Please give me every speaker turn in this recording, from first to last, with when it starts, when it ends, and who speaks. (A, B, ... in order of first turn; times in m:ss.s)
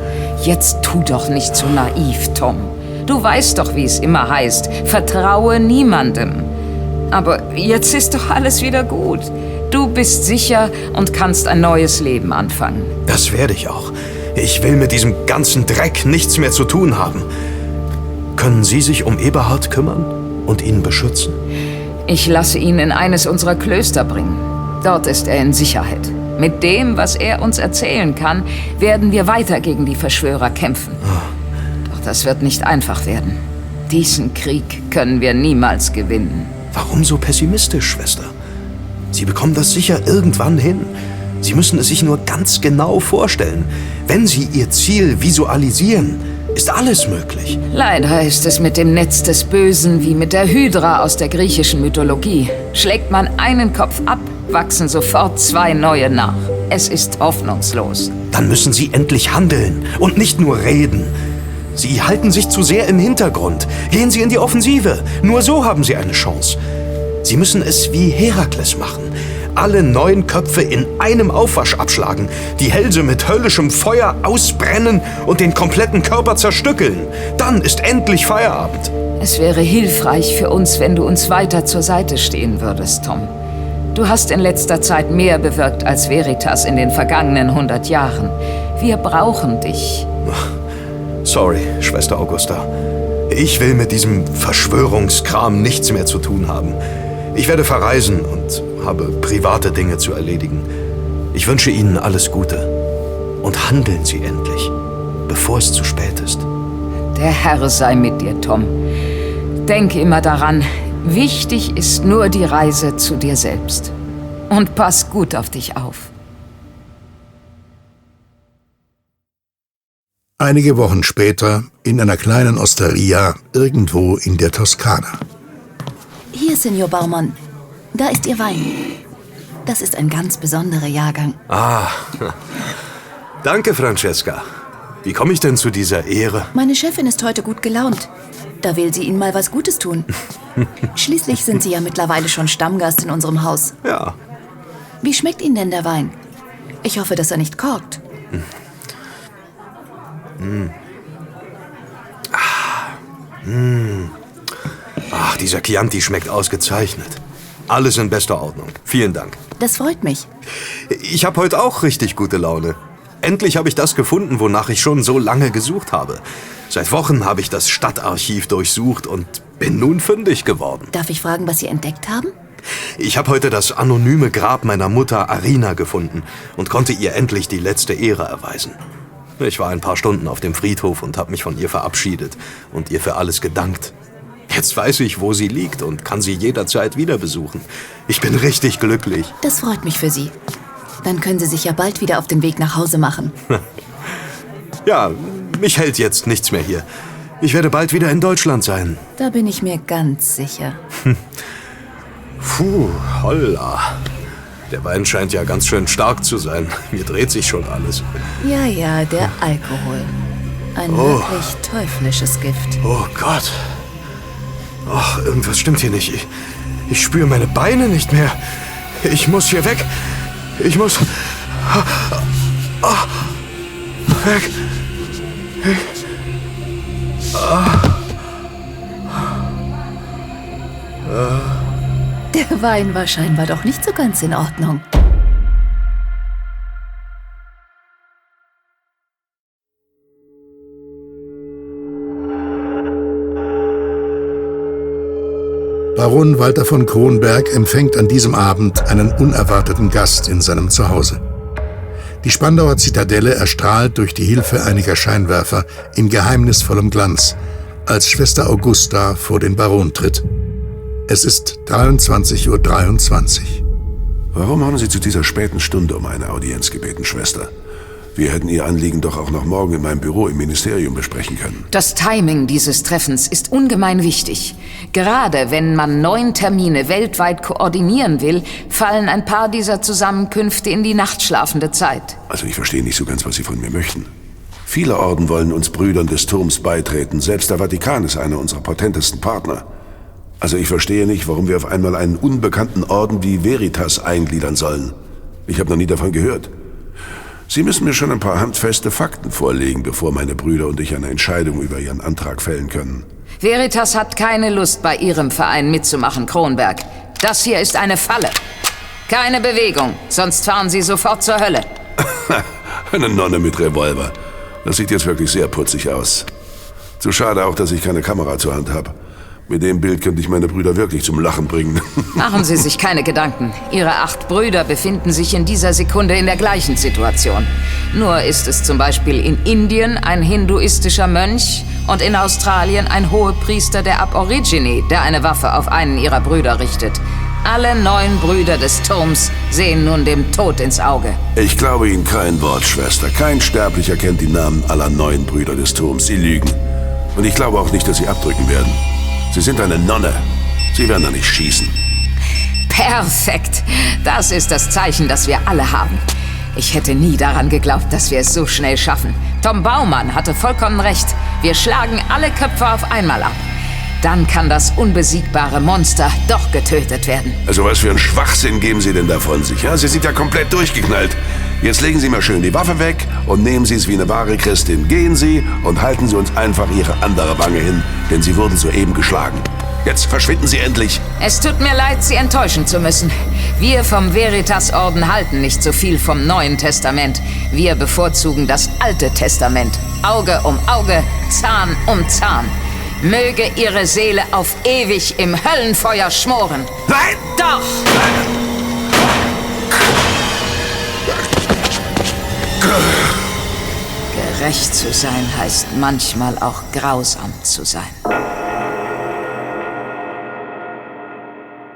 0:00.4-0:06.5 A
0:07.1-0:12.9 A
0:13.1-0:17.3 B
0:18.4-0:21.4 B
0:22.1-0:31.0 A
0:31.9-0:36.5 A
0:36.7-0:38.3 B
0:39.1-0:47.6 B
0:47.7-0:58.1 A
0:58.3-1:01.2 B
1:01.8-1:06.6 B
1:07.2-1:18.9 B
1:19.2-1:23.3 A
1:23.9-1:30.1 A
1:31.2-1:32.7 B
1:33.3-1:36.8 B
1:37.3-1:40.7 B
1:41.3-1:42.7 B
1:43.4-1:44.7 B
1:45.3-1:46.5 B
1:47.2-1:48.7 A
1:49.6-1:53.9 A
1:54.5-1:56.1 A
2:00.4-2:05.2 C
2:06.3-2:07.4 D
2:07.9-2:08.8 D
2:09.7-2:11.4 D
2:11.5-2:12.4 B
2:13.4-2:14.4 B
2:15.0-2:16.5 B
2:16.6-2:18.1 D
2:18.6-2:20.1 D
2:21.0-2:23.7 D
2:23.8-2:24.2 B
2:25.0-2:26.2 D
2:26.8-2:28.0 D
2:30.4-2:30.7 B
2:32.3-2:32.9 B
2:33.4-2:34.1 B
2:35.1-2:39.4 B
2:39.6-2:40.3 D
2:40.9-2:50.9 B
2:50.9-2:52.3 D
2:53.0-2:58.8 B
2:59.4-3:03.9 B
3:04.5-3:09.4 B
3:09.4-3:10.3 D
3:11.0-3:13.4 D
3:14.8-3:16.8 B
3:17.4-3:19.0 B
3:19.2-3:20.8 D
3:22.4-3:24.0 B
3:24.7-3:28.1 B
3:28.4-3:30.1 D
3:30.8-3:32.8 D
3:30.9-3:31.6 B
3:32.8-3:33.8 B
3:34.9-3:36.3 B
3:36.9-3:38.4 B
3:39.0-3:39.9 B
3:40.6-3:42.2 B
3:42.8-3:43.1 B
3:44.1-3:44.6 B
3:47.4-3:47.9 B
3:52.3-3:54.8 D
4:06.0-4:11.2 C
4:12.2-4:20.2 C
4:21.1-4:23.6 C
4:24.3-4:27.5 E
4:28.2-4:31.7 E
4:31.7-4:42.2 A
4:42.3-4:44.1 E
4:44.7-4:49.6 E
4:50.4-4:54.9 E
4:55.5-4:56.5 E
4:57.5-5:03.0 E
5:03.4-5:08.4 A
5:09.1-5:11.7 A
5:12.0-5:16.3 E
5:17.0-5:18.9 E
5:19.5-5:22.1 E
5:22.2-5:41.2 A
5:41.4-5:46.6 E
5:47.2-5:48.8 E
5:49.3-5:51.7 E
5:52.7-5:56.0 A
5:56.6-6:03.4 A
6:04.0-6:07.4 A
6:07.5-6:21.0 E
6:21.2-6:37.9 A
6:44.1-6:48.0 A